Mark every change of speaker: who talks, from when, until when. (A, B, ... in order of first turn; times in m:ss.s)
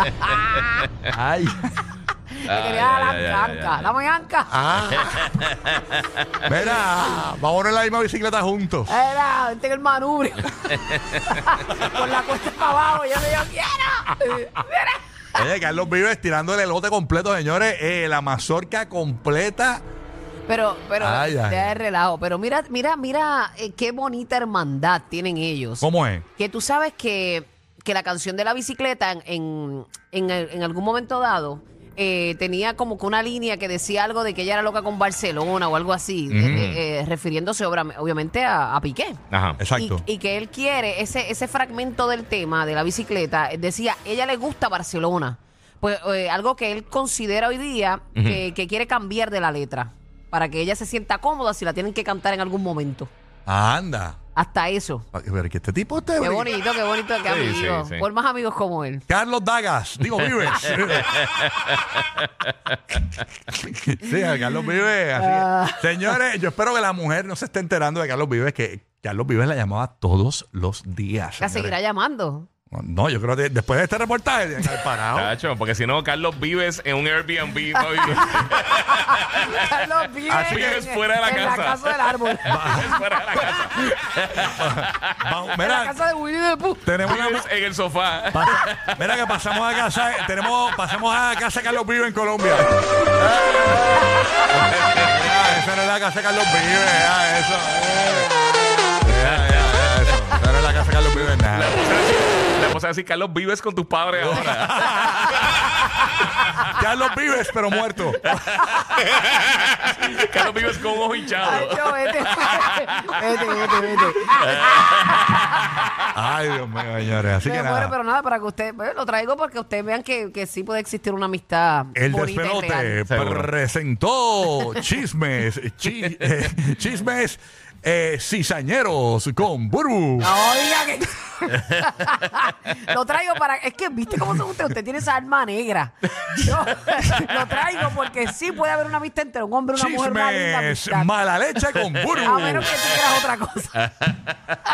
0:00.2-0:00.6 A
0:01.1-0:01.9 B
0:02.4-0:04.6 A
0:02.4-0:03.9 C
0:04.5-0:05.4 B
0:05.0-0:06.0 C
0:06.4-0:08.9 B
0:08.9-0:15.0 A
0:10.9-0:11.4 C
0:15.4-0:19.8 B
0:20.5-0:25.8 A
0:21.0-0:21.7 B
0:25.8-0:26.2 B
0:26.4-0:39.2 A
0:36.3-0:36.7 B
0:36.5-0:36.8 C
0:39.3-0:39.6 C
0:39.6-0:40.0 B
0:39.8-0:53.1 A
0:48.2-0:48.4 C
0:53.5-0:54.2 B
0:54.4-0:55.1 A
0:55.1-0:56.5 B
0:56.2-0:59.0 A
0:57.3-0:58.0 C
0:59.1-1:01.3 B
1:00.7-1:03.0 C
1:03.5-1:11.8 B
1:05.2-1:06.2 A
1:11.4-1:12.5 A
1:12.7-1:15.3 B
1:15.1-1:19.8 C
1:17.8-1:22.8 A
1:20.3-1:20.9 B
1:20.5-1:25.4 C
1:22.5-1:23.0 B
1:24.4-1:26.0 B
1:25.6-1:26.9 A
1:26.8-1:27.5 B
1:27.0-1:30.9 C
1:28.3-1:32.8 B
1:33.2-1:35.4 C
1:34.0-1:34.3 A
1:34.5-1:38.2 B
1:39.0-1:41.8 B
1:39.0-1:40.3 C
1:41.2-1:45.8 C
1:44.2-1:45.5 B
1:46.7-1:48.3 B
1:48.3-1:56.1 C
1:48.3-1:48.8 A
1:51.4-1:55.7 A
1:56.1-1:58.0 B
1:57.4-2:03.0 A
2:02.0-2:10.3 B
2:03.1-2:03.5 C
2:10.2-2:21.1 A
2:19.8-2:22.8 B
2:22.2-2:23.9 A
2:24.0-2:24.3 C